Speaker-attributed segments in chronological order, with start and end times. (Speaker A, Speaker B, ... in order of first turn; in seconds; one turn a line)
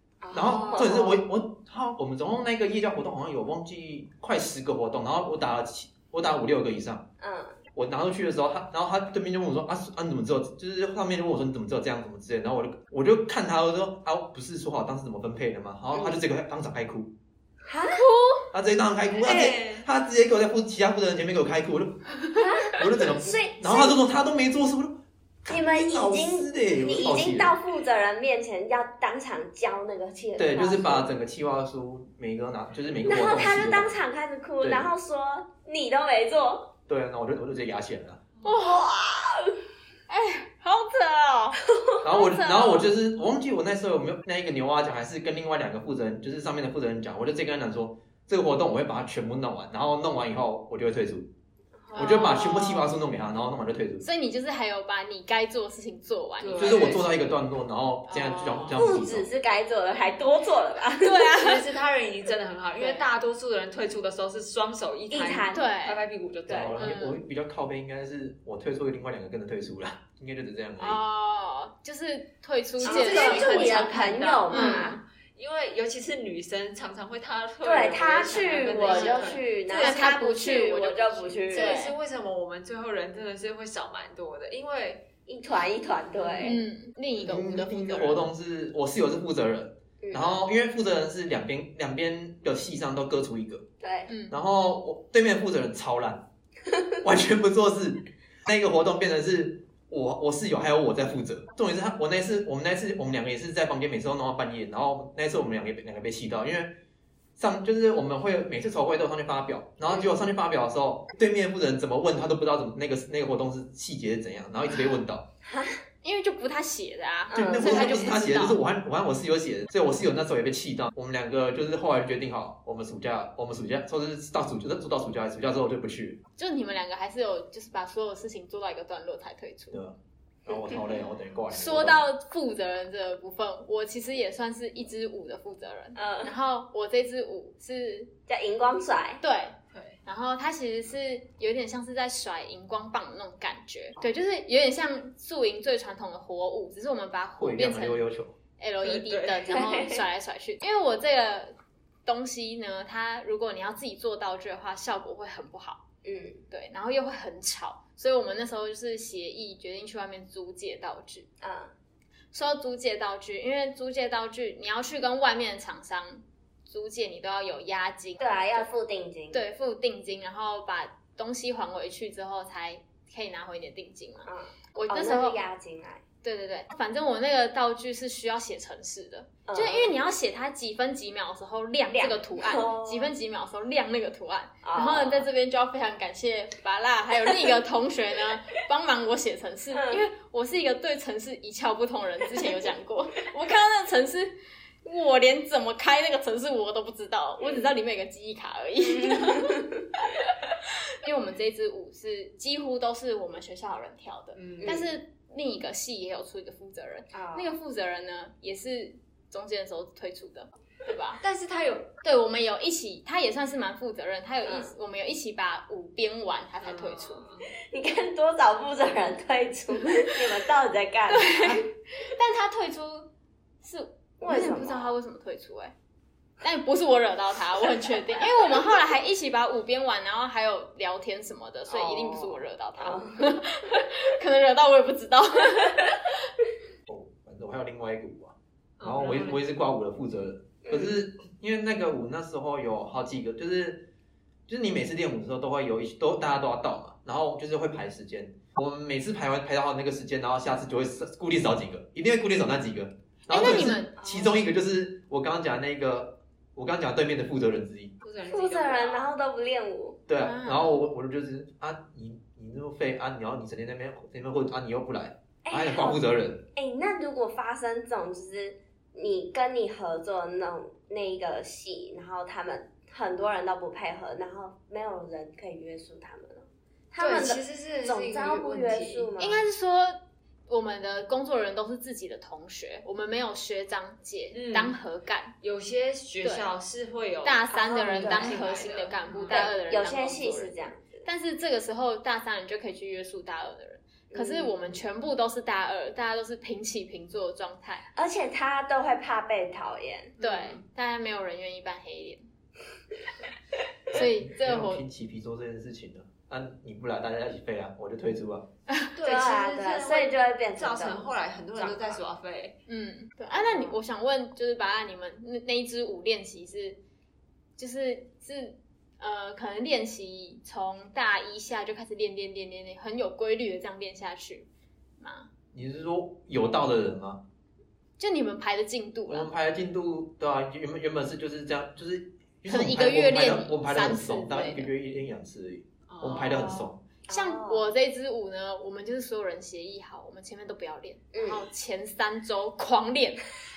Speaker A: 0.2-1.2
Speaker B: 0.3-7.1
Speaker A: 7.2-7.6
Speaker B: 7.8-17.1
Speaker A: 15.9-16.2
Speaker A: 17.7-18.0
Speaker C: 17.9-18.5
Speaker B: 18.5-22.1
Speaker D: 19.2-19.9
Speaker A: 22.4-24.0
Speaker B: 22.7-27.6
Speaker A: 25.5-31.1
Speaker B: 30.4-34.0
Speaker A: 33.0-36.7
Speaker B: 34.6-34.9
Speaker B: 36.9-38.3
Speaker C: 38.4-38.9
Speaker A: 38.6-39.6
Speaker C: 40.1-41.6
Speaker A: 41.8-42.1
Speaker B: 42.0-51.3
Speaker C: 42.1-42.8
Speaker A: 51.9-52.5
Speaker C: 51.9-52.9
Speaker B: 52.0-54.1
Speaker C: 54.0-57.0
Speaker D: 56.4-57.1
Speaker B: 56.6-59.3
Speaker C: 58.1-58.9
Speaker A: 58.8-61.3
Speaker C: 61.0-61.6
Speaker D: 61.4-66.9
Speaker C: 62.8-63.0
Speaker A: 65.1-65.6
Speaker C: 65.5-66.0
Speaker A: 66.5-66.7
Speaker B: 66.5-71.0
Speaker C: 66.8-67.2
Speaker C: 70.8-75.0
Speaker D: 72.8-85.1
Speaker A: 72.8-75.0
Speaker A: 77.6-81.8
Speaker C: 78.8-82.0
Speaker A: 85.3-86.6
Speaker D: 86.2-86.6
Speaker C: 86.4-88.3
Speaker B: 87.2-93.7
Speaker A: 90.0-90.4
Speaker A: 93.8-94.1
Speaker C: 94.1-94.4
Speaker B: 94.3-96.3
Speaker B: 97.0-106.8
Speaker B: 107.4-115.3
Speaker A: 115.4-115.8
Speaker C: 116.0-118.6
Speaker A: 117.3-118.0
Speaker B: 117.3-126.2
Speaker C: 126.4-129.8
Speaker B: 129.7-132.0
Speaker C: 131.5-138.1
Speaker A: 136.0-136.3
Speaker A: 138.3-139.2
Speaker C: 139.2-148.0
Speaker D: 139.7-140.0
Speaker B: 147.4-148.3
Speaker C: 148.6-151.6
Speaker D: 148.8-149.6
Speaker A: 149.5-150.0
Speaker C: 152.1-155.8
Speaker A: 156.0-156.4
Speaker C: 156.5-161.3
Speaker A: 161.4-161.7
Speaker C: 162.3-168.7
Speaker A: 168.2-169.4
Speaker C: 169.3-175.4
Speaker A: 174.2-176.0
Speaker C: 176.2-200.3
Speaker A: 179.5-179.9
Speaker A: 181.9-183.1
Speaker A: 184.6-185.3
Speaker A: 189.7-190.1
Speaker A: 197.4-197.7
Speaker A: 198.8-199.8
Speaker C: 201.0-211.2
Speaker D: 204.3-204.8
Speaker A: 204.6-204.9
Speaker A: 207.1-207.5
Speaker D: 211.2-211.9
Speaker C: 212.0-217.2
Speaker A: 214.5-214.7
Speaker D: 216.6-217.5
Speaker A: 217.7-221.6
Speaker C: 221.1-223.1
Speaker C: 223.6-225.7
Speaker A: 224.2-224.9
Speaker C: 226.4-236.1
Speaker A: 231.7-233.3
Speaker B: 236.9-243.9
Speaker D: 238.8-239.4
Speaker A: 240.6-241.0
Speaker B: 244.5-257.9
Speaker C: 253.3-254.0
Speaker A: 254.0-254.4
Speaker D: 258.0-259.1
Speaker A: 258.3-260.0
Speaker B: 260.1-266.4
Speaker C: 260.2-260.8
Speaker A: 265.4-266.0
Speaker A: 266.5-279.5
Speaker D: 277.0-279.1
Speaker C: 279.2-285.4
Speaker D: 284.3-284.8
Speaker D: 285.4-289.5
Speaker C: 286.2-286.5
Speaker C: 287.2-297.9
Speaker A: 287.5-288.6
Speaker A: 289.3-291.1
Speaker A: 294.1-294.7
Speaker A: 297.9-300.1
Speaker D: 300.2-300.6
Speaker C: 300.2-302.2
Speaker C: 303.9-304.8
Speaker B: 303.9-308.5
Speaker D: 309.0-312.6
Speaker A: 309.0-312.0
Speaker C: 312.7-316.8
Speaker A: 313.4-313.8
Speaker C: 317.6-324.5
Speaker C: 325.0-325.3
Speaker B: 325.5-327.2
Speaker C: 328.0-329.3
Speaker B: 329.1-336.8
Speaker C: 332.5-334.7
Speaker D: 335.9-336.7
Speaker A: 337.1-337.7
Speaker C: 337.1-343.2
Speaker A: 341.1-341.5